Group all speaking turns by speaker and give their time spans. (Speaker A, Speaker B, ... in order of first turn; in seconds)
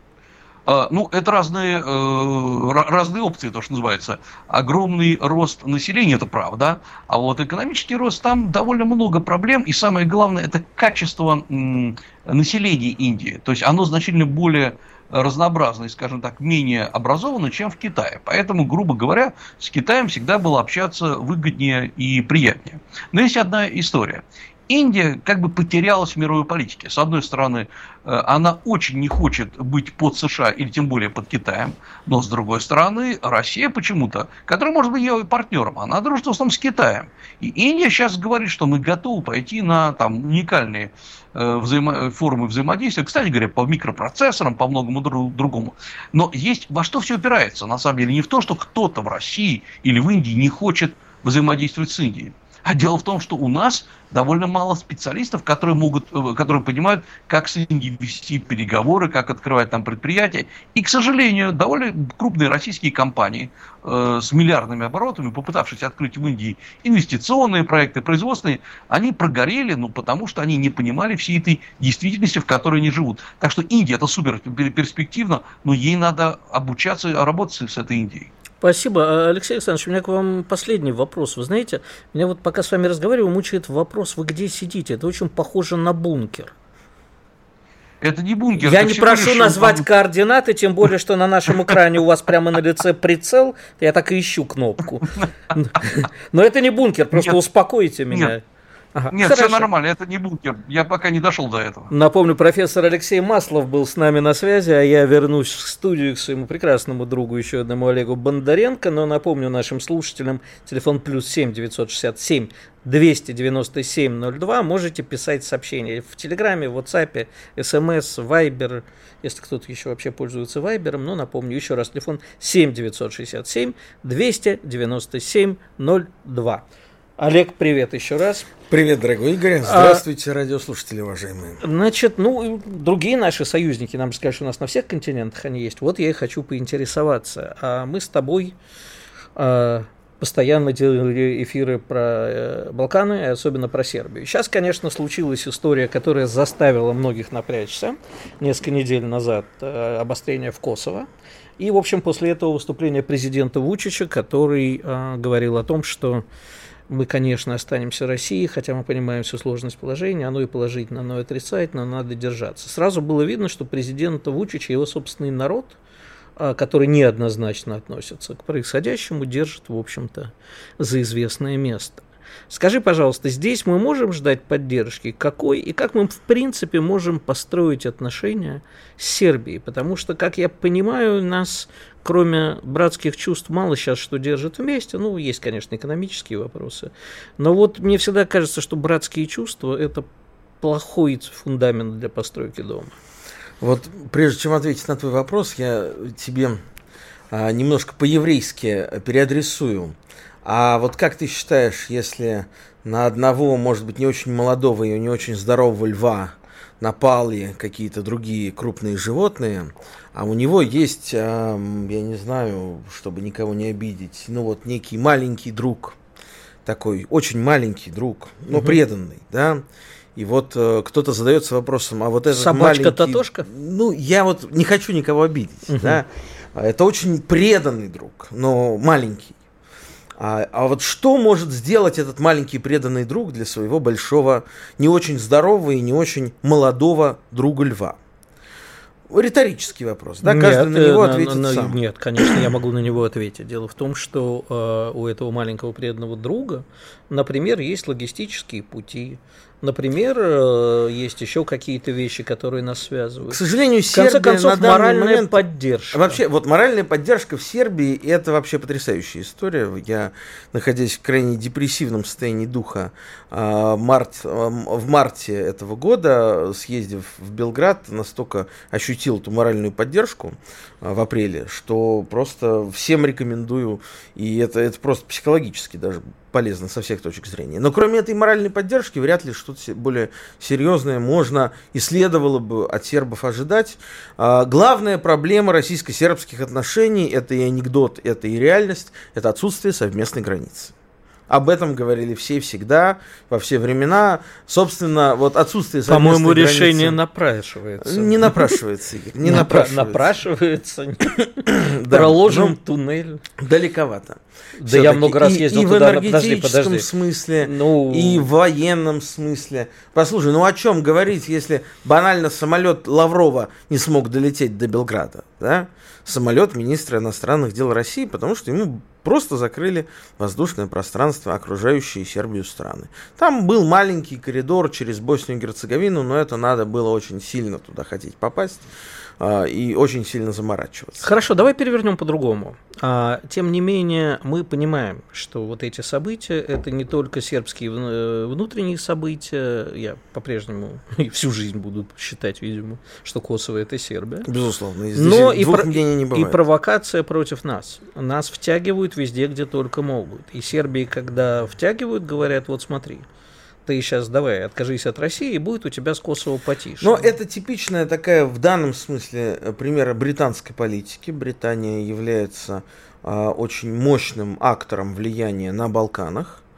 Speaker A: 0.7-78.3, 88.0-89.8, 97.1-97.4, 99.1-101.9
Speaker B: 78.6-86.5, 88.6-98.4, 98.9-99.7, 101.9-126.6, 127.2-128.5, 129.6-130.0, 131.6-138.5, 139.3-151.1, 151.6-156.2, 156.9-165.8, 166.4-190.1, 190.6-192.9, 222.3-223.4, 225.7-226.0, 240.2-253.4, 253.9-256.2, 295.9-298.6, 299.2-303.2, 304.6-306.9, 307.4-308.3, 331.0-344.3, 344.9-353.0, 353.6-357.1
Speaker C: 128.7-131.6, 193.6-196.6, 197.3-216.0, 216.6-219.6, 220.2-229.3, 230.2-238.0, 239.1-242.2, 253.3-290.7, 291.3-297.0, 297.8-300.1, 301.5-302.6, 303.4-328.6, 329.2-331.1, 344.2-346.4, 356.8-366.4